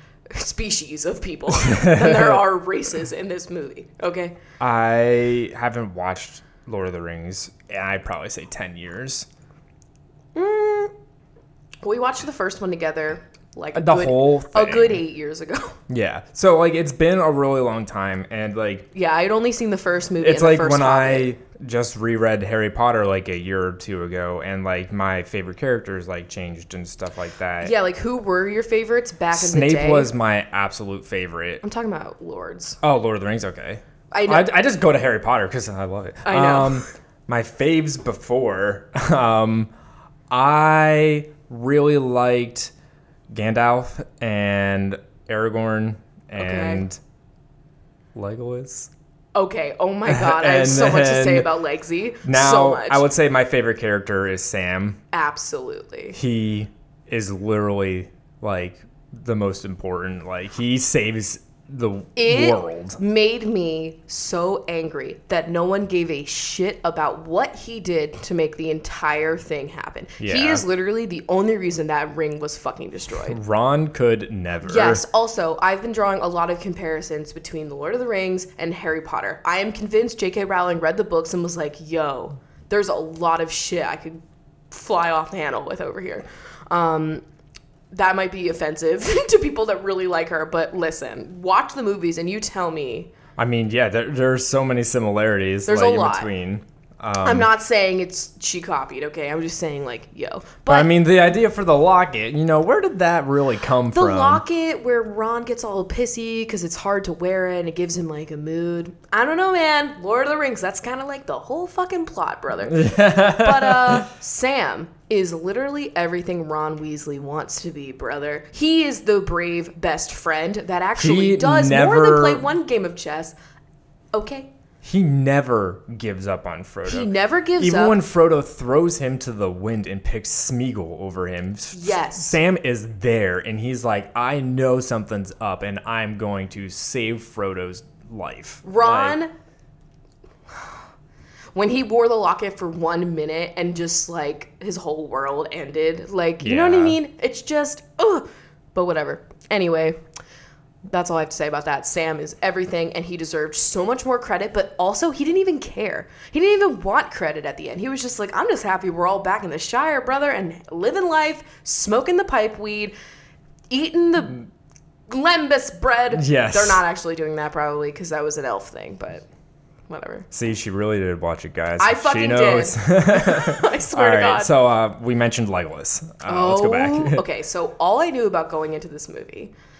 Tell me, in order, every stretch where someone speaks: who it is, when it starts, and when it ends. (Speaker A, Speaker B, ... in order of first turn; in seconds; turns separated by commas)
Speaker A: 0.3-4.3, Speaker B: 1.6-2.4, Speaker B: 4.6-9.3, Speaker A: 10.3-10.9, Speaker A: 11.8-15.8, Speaker B: 13.7-15.0, Speaker B: 15.9-18.9, Speaker A: 18.9-21.3, Speaker B: 20.2-27.7, Speaker A: 27.6-30.1, Speaker B: 29.3-31.6, Speaker A: 31.6-32.8, Speaker B: 32.8-39.7, Speaker A: 34.1-34.5, Speaker A: 36.2-36.8, Speaker B: 40.3-42.7, Speaker B: 43.3-47.0, Speaker A: 46.4-46.8, Speaker B: 48.1-48.9, Speaker A: 49.3-53.1, Speaker B: 50.1-51.5, Speaker B: 52.2-55.0, Speaker A: 55.1-56.2, Speaker B: 56.1-63.0, Speaker A: 62.1-73.4, Speaker B: 70.2-70.6, Speaker B: 73.3-75.0, Speaker A: 74.6-87.2, Speaker A: 87.9-93.1, Speaker B: 93.4-97.5, Speaker A: 95.7-96.3, Speaker A: 97.2-100.9, Speaker B: 100.7-104.4, Speaker A: 103.9-123.3, Speaker B: 112.7-114.1, Speaker B: 121.0-122.5, Speaker A: 124.1-124.5, Speaker B: 124.8-139.2, Speaker A: 126.8-128.0, Speaker A: 131.7-132.4, Speaker A: 138.6-139.3, Speaker A: 141.5-150.0, Speaker B: 146.4-147.0, Speaker A: 150.9-162.9, Speaker A: 163.7-164.5, Speaker A: 165.1-169.2, Speaker B: 166.1-166.8, Speaker A: 169.9-170.3, Speaker B: 170.3-177.2, Speaker A: 171.8-174.5, Speaker A: 176.2-179.5